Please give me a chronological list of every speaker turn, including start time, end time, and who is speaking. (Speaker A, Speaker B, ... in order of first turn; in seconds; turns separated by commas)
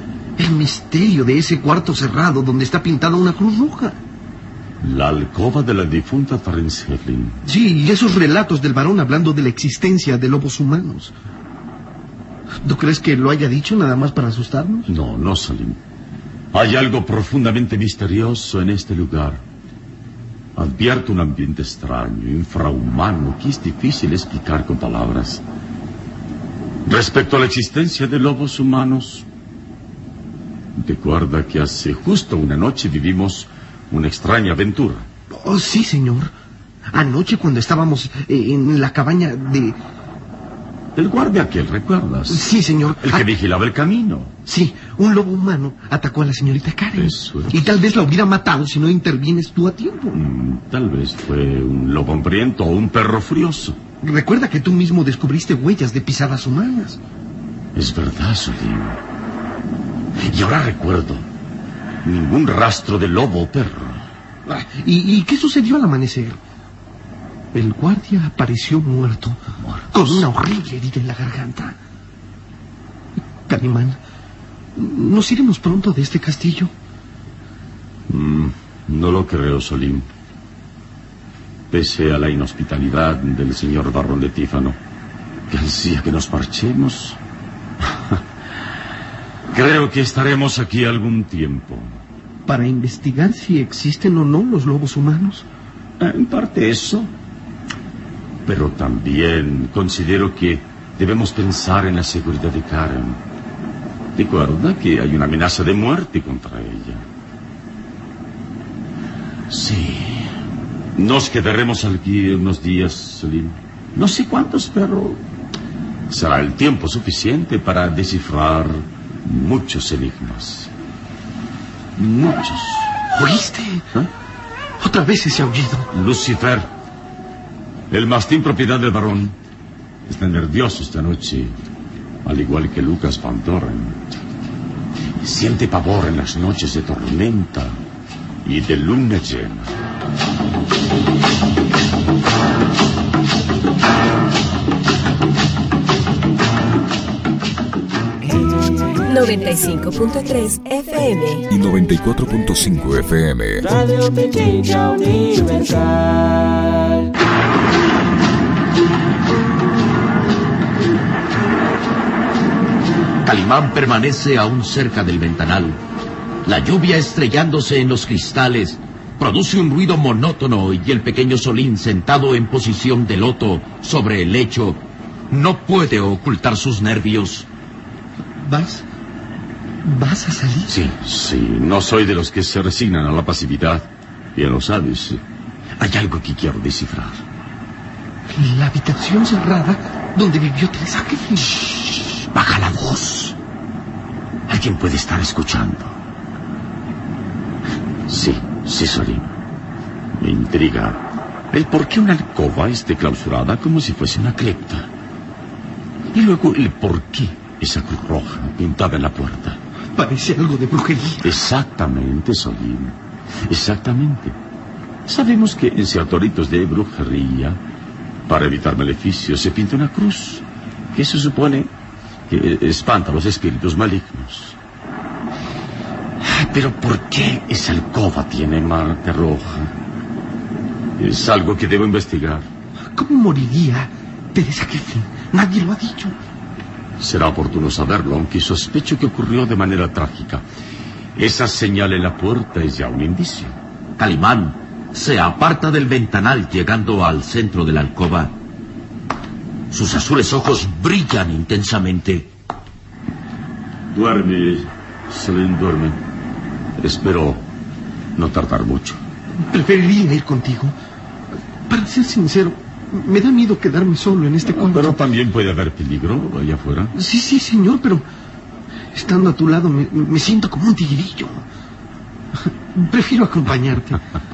Speaker A: 0.4-4.0, Speaker B: 4.8-7.4, Speaker A: 7.4-11.1, Speaker A: 12.6-14.9, Speaker B: 14.9-15.8, Speaker B: 16.5-19.4, Speaker B: 20.6-25.4, Speaker B: 26.8-29.2, Speaker B: 30.7-35.1, Speaker A: 35.3-36.3, Speaker A: 36.9-39.8, Speaker B: 40.9-44.3, Speaker A: 42.3-43.2, Speaker A: 44.5-50.2, Speaker B: 47.0-47.6, Speaker B: 50.1-53.8, Speaker A: 54.0-57.0, Speaker B: 57.7-59.0, Speaker B: 60.2-61.2, Speaker B: 62.0-64.1, Speaker A: 64.5-66.4, Speaker A: 67.5-69.4, Speaker B: 69.6-70.2, Speaker A: 69.9-71.8, Speaker A: 73.5-74.0, Speaker A: 74.8-76.7, Speaker B: 78.1-80.1, Speaker B: 81.7-84.8, Speaker B: 85.5-87.2, Speaker B: 87.8-88.2, Speaker B: 89.5-92.0, Speaker A: 92.5-95.5, Speaker B: 96.0-97.1, Speaker B: 98.5-103.2, Speaker B: 104.2-107.0, Speaker B: 109.5-110.3, Speaker B: 111.0-115.2, Speaker B: 116.1-120.7, Speaker B: 122.0-122.9, Speaker A: 123.1-123.8, Speaker A: 124.8-125.9, Speaker B: 125.9-126.7, Speaker B: 127.9-129.3, Speaker B: 130.1-131.5, Speaker B: 132.2-134.1, Speaker B: 135.2-137.8, Speaker B: 138.4-139.7, Speaker C: 149.0-151.4, Speaker D: 151.5-153.7, Speaker E: 153.7-156.0, Speaker F: 163.2-165.8, Speaker F: 166.4-177.5, Speaker A: 178.4-178.8, Speaker A: 179.8-180.8, Speaker B: 180.7-185.2, Speaker B: 185.8-187.2, Speaker A: 188.3-191.6, Speaker B: 192.2-193.3, Speaker B: 194.5-196.0, Speaker B: 198.1-199.3, Speaker B: 200.1-204.9, Speaker B: 206.1-209.6, Speaker A: 209.9-211.3, Speaker B: 211.2-212.9, Speaker B: 213.5-214.4, Speaker B: 215.1-217.6, Speaker B: 218.3-221.7, Speaker B: 222.3-224.6, Speaker B: 226.2-229.7, Speaker B: 231.0-232.5, Speaker A: 232.9-236.2, Speaker B: 237.0-240.4, Speaker B: 241.1-243.6, Speaker F: 244.0-248.4, Speaker F: 249.7-252.3, Speaker B: 253.9-256.0, Speaker B: 256.8-257.4, Speaker B: 258.1-259.0, Speaker A: 259.5-260.7, Speaker A: 261.7-265.0, Speaker B: 264.4-266.9, Speaker A: 266.9-268.0, Speaker A: 268.9-271.4, Speaker A: 272.7-274.0